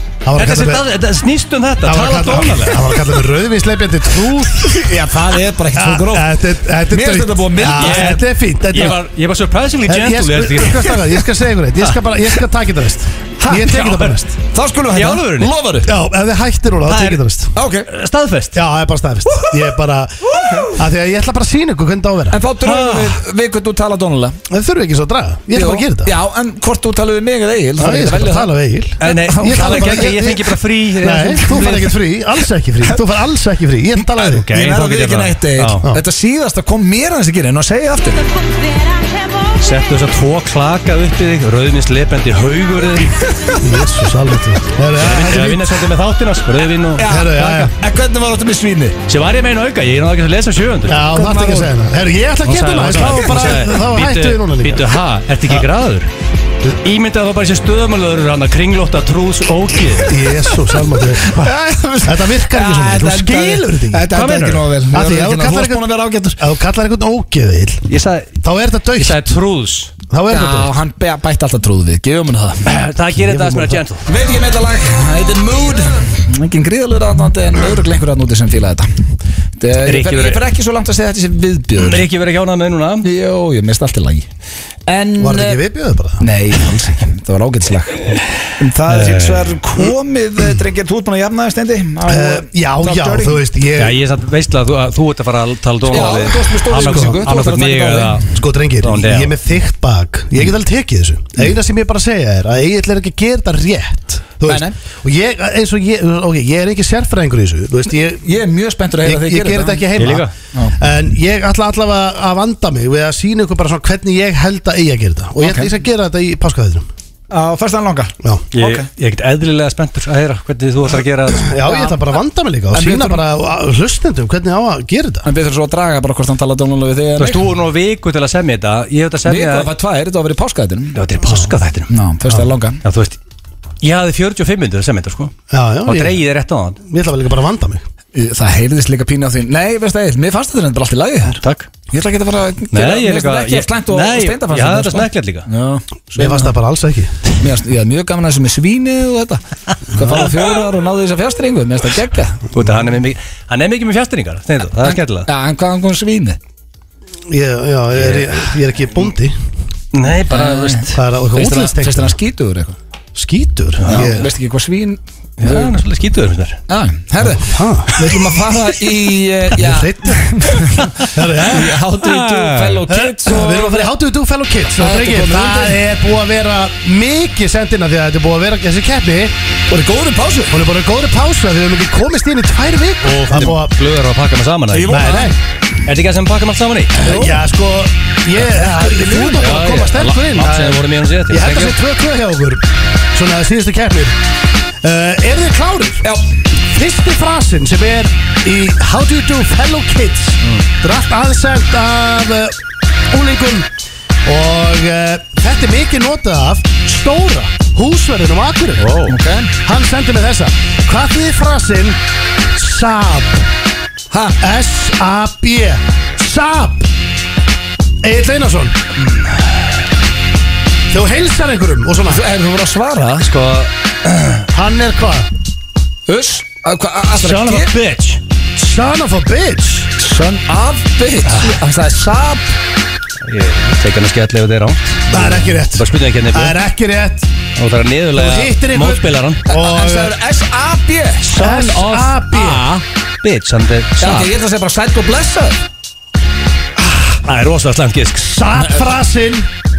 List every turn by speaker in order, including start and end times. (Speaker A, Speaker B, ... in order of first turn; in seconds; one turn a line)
Speaker A: 0.2-0.8
Speaker B: 0.3-3.0
Speaker A: 1.8-4.9
Speaker C: 4.7-6.4
Speaker A: 5.7-9.0
Speaker C: 6.9-8.2
Speaker B: 7.7-11.2
Speaker A: 9.8-14.3
Speaker C: 13.4-13.8
Speaker B: 13.5-14.2
Speaker C: 14.5-15.9
Speaker B: 14.9-15.5
Speaker A: 15.8-17.5
Speaker B: 16.9-17.3
Speaker C: 17.5-17.9
Speaker B: 17.9-18.6
Speaker A: 18.5-22.4
Speaker C: 19.3-19.6
Speaker C: 20.2-20.8
Speaker C: 22.3-24.4
Speaker B: 22.6-23.2
Speaker A: 24.5-26.1
Speaker C: 25.5-30.2
Speaker A: 27.8-34.5
Speaker B: 29.0-31.9
Speaker B: 34.2-35.9
Speaker C: 34.5-38.3
Speaker B: 39.5-43.5
Speaker A: 43.6-45.9
Speaker B: 45.0-47.1
Speaker C: 47.0-49.0
Speaker A: 47.0-47.7
Speaker B: 49.1-51.1
Speaker A: 50.9-54.9
Speaker C: 51.1-51.7
Speaker B: 52.4-56.1
Speaker B: 56.8-60.2
Speaker A: 60.0-61.5
Speaker C: 60.9-66.4
Speaker A: 62.0-64.1
Speaker B: 64.1-64.7
Speaker A: 64.9-67.9
Speaker B: 67.9-68.4
Speaker A: 68.4-69.2
Speaker B: 69.0-69.9
Speaker A: 70.1-70.7
Speaker C: 70.3-72.7
Speaker B: 72.6-74.1
Speaker A: 73.1-73.8
Speaker C: 74.0-78.9
Speaker C: 79.6-82.0
Speaker B: 79.8-80.4
Speaker B: 81.8-83.1
Speaker C: 83.0-84.3
Speaker C: 84.9-85.6
Speaker A: 85.2-86.3
Speaker C: 86.2-93.4
Speaker B: 88.9-89.6
Speaker A: 92.0-94.0
Speaker B: 93.8-99.3
Speaker C: 95.9-98.2
Speaker A: 96.8-97.2
Speaker A: 98.3-108.3
Speaker C: 104.4-104.7
Speaker C: 108.2-109.9
Speaker A: 109.0-116.9
Speaker B: 109.9-110.3
Speaker C: 115.4-115.7
Speaker C: 117.3-118.9
Speaker B: 118.5-121.5
Speaker A: 121.4-125.3
Speaker C: 121.6-122.0
Speaker C: 122.7-123.2
Speaker C: 125.2-127.4
Speaker B: 127.2-129.7
Speaker C: 129.2-131.0
Speaker B: 130.9-131.9
Speaker A: 131.2-131.5
Speaker C: 131.9-132.8
Speaker B: 132.8-133.2
Speaker B: 133.8-135.3
Speaker A: 135.5-136.2
Speaker B: 135.8-136.8
Speaker A: 136.8-137.8
Speaker C: 138.1-146.6
Speaker B: 141.4-141.7
Speaker B: 142.7-145.5
Speaker A: 146.1-147.2
Speaker C: 147.3-152.4
Speaker A: 150.0-150.2
Speaker B: 152.5-155.3
Speaker C: 154.8-156.4
Speaker A: 157.3-159.3
Speaker B: 158.0-158.4
Speaker B: 159.9-161.0
Speaker C: 160.3-162.8
Speaker A: 160.9-162.1
Speaker A: 163.1-164.3
Speaker B: 163.8-164.2
Speaker C: 163.8-165.8
Speaker B: 165.4-166.6
Speaker C: 166.7-173.9
Speaker A: 167.2-168.3
Speaker A: 169.5-170.6
Speaker B: 170.7-171.1
Speaker A: 171.1-171.8
Speaker B: 172.0-172.8
Speaker A: 172.9-179.3
Speaker C: 174.7-175.8
Speaker C: 179.7-180.6
Speaker A: 180.5-183.7
Speaker B: 183.0-185.0
Speaker C: 184.7-185.3
Speaker A: 184.9-185.4
Speaker B: 185.8-187.0
Speaker C: 187.0-187.4
Speaker A: 187.0-194.2
Speaker C: 188.4-189.6
Speaker B: 189.3-191.8
Speaker A: 194.8-196.0
Speaker A: 196.6-202.6
Speaker A: 203.1-203.7
Speaker A: 204.2-208.9
Speaker B: 208.8-209.1
Speaker C: 209.1-209.5
Speaker A: 209.6-212.0
Speaker A: 212.5-213.4
Speaker C: 214.1-214.4
Speaker A: 214.4-216.9
Speaker A: 218.0-218.8
Speaker A: 220.9-222.2
Speaker C: 222.1-223.3
Speaker B: 223.2-224.4
Speaker A: 224.5-225.3
Speaker C: 226.1-227.7
Speaker B: 227.2-228.2
Speaker A: 228.6-229.9
Speaker C: 230.0-232.6
Speaker B: 231.2-231.6
Speaker B: 233.2-236.6
Speaker A: 235.1-237.3
Speaker B: 237.6-239.4
Speaker A: 238.1-240.1
Speaker C: 239.5-242.8
Speaker A: 241.3-242.7
Speaker B: 241.4-241.8
Speaker B: 243.2-244.3
Speaker C: 244.0-245.6
Speaker B: 247.2-248.4
Speaker A: 248.2-249.5
Speaker C: 248.6-248.8